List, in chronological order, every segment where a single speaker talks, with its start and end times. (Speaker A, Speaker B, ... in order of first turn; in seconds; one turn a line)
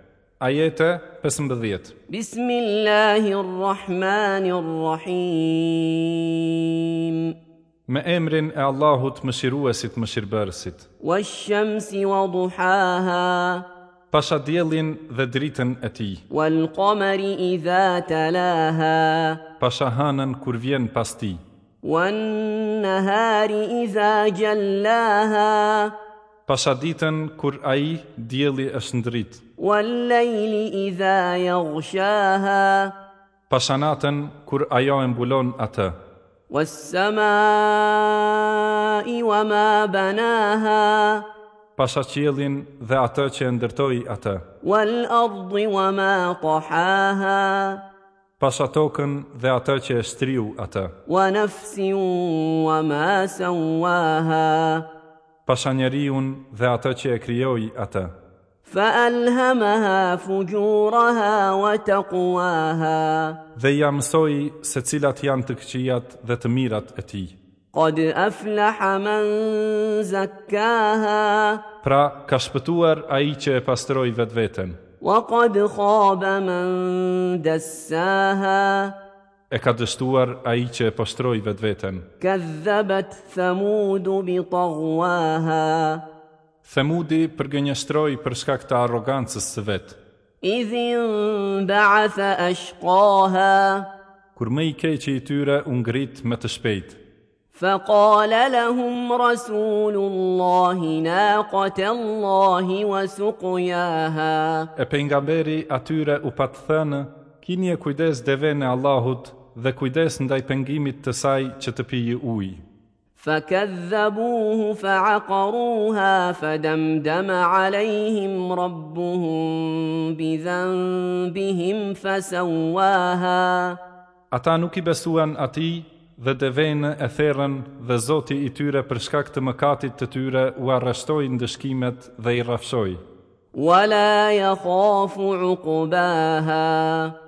Speaker A: 0.4-1.9
Speaker B: 2.1-7.3
Speaker A: 7.9-10.8
Speaker B: 11.0-13.6
Speaker A: 14.1-16.2
Speaker B: 16.3-19.4
Speaker A: 19.6-21.4
Speaker B: 21.8-25.9
Speaker A: 26.5-29.4
Speaker B: 29.6-32.9
Speaker A: 33.5-35.9
Speaker B: 36.5-41.2
Speaker A: 41.8-44.4
Speaker B: 44.6-47.8
Speaker A: 48.4-50.9
Speaker B: 51.1-54.8
Speaker A: 55.5-58.1
Speaker B: 58.6-63.4
Speaker A: 63.5-67.4
Speaker B: 67.7-71.6
Speaker A: 71.8-74.8
Speaker B: 75.0-78.9
Speaker A: 79.5-82.0
Speaker B: 82.2-86.0
Speaker A: 86.6-90.0
Speaker B: 90.4-93.9
Speaker A: 94.3-97.0
Speaker B: 97.5-104.7
Speaker A: 104.8-112.6
Speaker B: 113.2-123.8
Speaker A: 124.3-133.0
Speaker B: 133.5-137.1